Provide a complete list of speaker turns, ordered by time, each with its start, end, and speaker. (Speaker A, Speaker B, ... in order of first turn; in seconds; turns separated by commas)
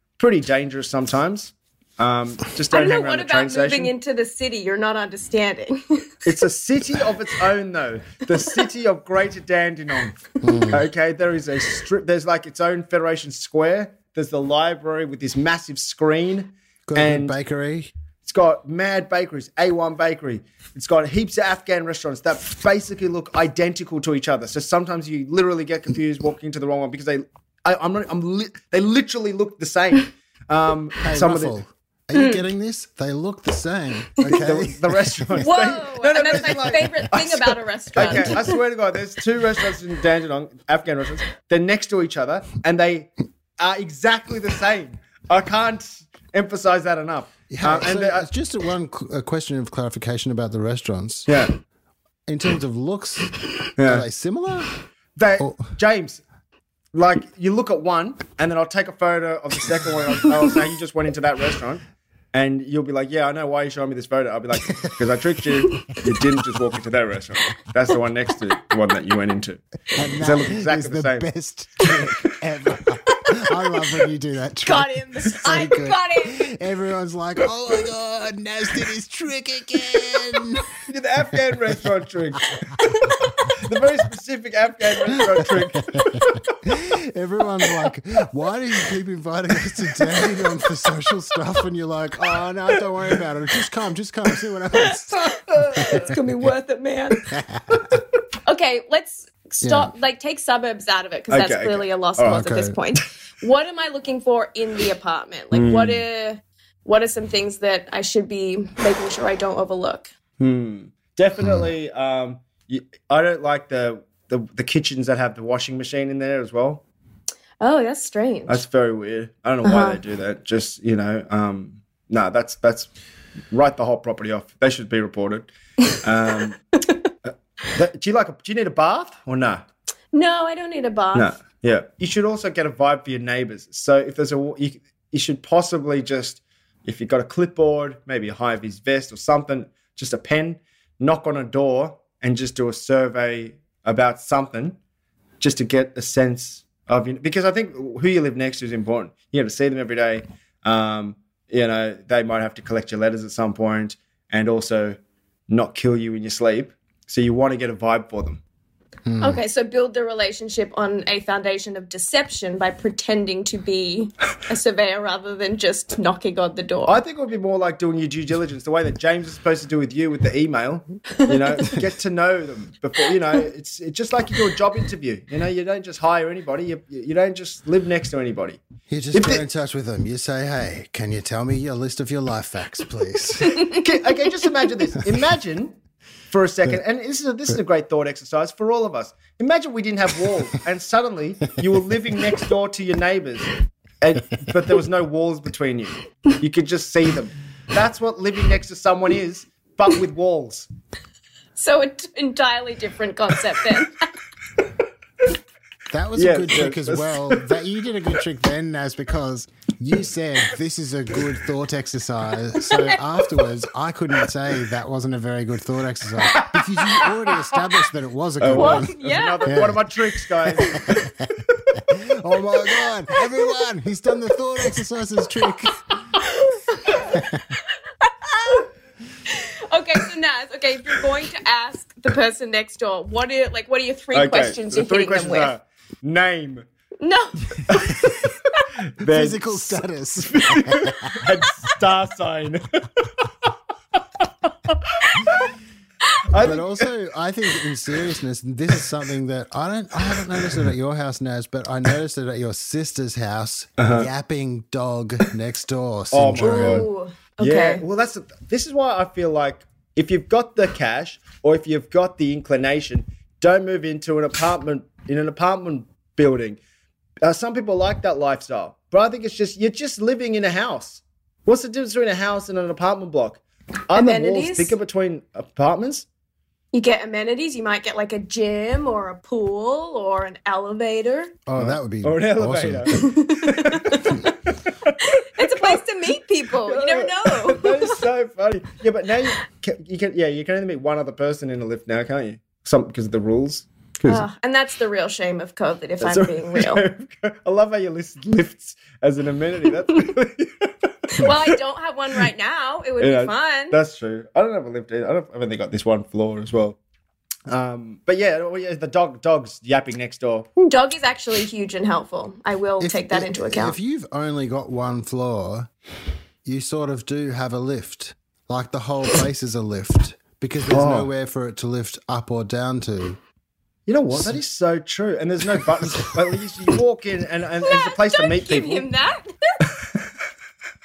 Speaker A: 0.2-3.9, Speaker B: 2.7-6.2, Speaker A: 6.2-10.2, Speaker C: 10.4-10.9, Speaker A: 10.7-17.4, Speaker C: 16.9-17.9, Speaker A: 18.2-31.6, Speaker C: 31.0-35.4, Speaker B: 32.1-32.4, Speaker A: 34.2-48.3, Speaker B: 35.4-38.6, Speaker C: 47.5-51.3, Speaker A: 51.3-51.5, Speaker C: 52.3-54.7, Speaker A: 53.8-54.0, Speaker A: 55.1-56.2, Speaker C: 55.4-55.7, Speaker A: 56.9-61.8, Speaker A: 62.3-69.6, Speaker C: 69.9-80.7, Speaker A: 70.2-71.3, Speaker B: 74.6-76.5, Speaker A: 80.9-86.5, Speaker C: 82.6-83.2, Speaker C: 85.2-96.1, Speaker A: 95.5-96.1, Speaker B: 95.7-97.2, Speaker C: 97.3-97.9, Speaker B: 98.4-110.1, Speaker C: 99.6-99.9, Speaker A: 101.3-102.4, Speaker C: 102.2-102.8, Speaker A: 105.5-106.0, Speaker A: 110.4-116.8, Speaker C: 111.4-111.7, Speaker B: 117.6-118.6, Speaker A: 118.5-122.9, Speaker B: 119.6-120.0, Speaker A: 123.5-126.6, Speaker A: 127.3-129.6, Speaker B: 130.1-131.3, Speaker A: 131.1-144.8, Speaker A: 145.4-155.0, Speaker A: 155.5-158.4, Speaker C: 159.1-159.4, Speaker B: 159.2-167.0, Speaker A: 166.9-178.6, Speaker C: 178.9-183.8, Speaker A: 179.1-179.4, Speaker B: 183.4-183.8, Speaker A: 183.6-185.8, Speaker A: 186.3-200.7, Speaker B: 201.6-204.0, Speaker C: 205.9-218.9, Speaker A: 206.2-207.5, Speaker B: 212.6-213.0, Speaker A: 216.3-217.1, Speaker A: 218.4-221.8, Speaker B: 218.5-219.5, Speaker C: 219.4-219.8, Speaker C: 220.6-225.8, Speaker B: 223.2-223.5, Speaker B: 226.2-228.7, Speaker C: 227.1-227.4, Speaker B: 229.2-235.5, Speaker A: 234.1-236.7, Speaker B: 237.0-238.4, Speaker A: 237.7-243.5, Speaker C: 239.0-241.2, Speaker A: 244.2-245.5, Speaker A: 246.3-246.9, Speaker C: 246.4-256.9, Speaker A: 253.8-254.1, Speaker A: 256.1-256.9, Speaker B: 256.4-257.8, Speaker A: 257.4-266.6, Speaker A: 267.2-276.1, Speaker B: 273.9-274.8, Speaker B: 276.7-281.3, Speaker C: 281.5-283.1, Speaker A: 281.6-285.8, Speaker B: 282.9-284.3, Speaker B: 285.0-288.0, Speaker A: 286.6-294.2, Speaker B: 294.1-296.8, Speaker A: 296.0-301.6, Speaker B: 301.2-303.8, Speaker A: 303.0-306.8, Speaker A: 307.5-310.7, Speaker B: 310.7-313.8, Speaker C: 312.8-315.7, Speaker C: 316.4-323.2, Speaker A: 320.7-321.1, Speaker A: 323.9-328.9, Speaker C: 324.1-324.4, Speaker C: 325.8-326.2, Speaker B: 327.6-329.7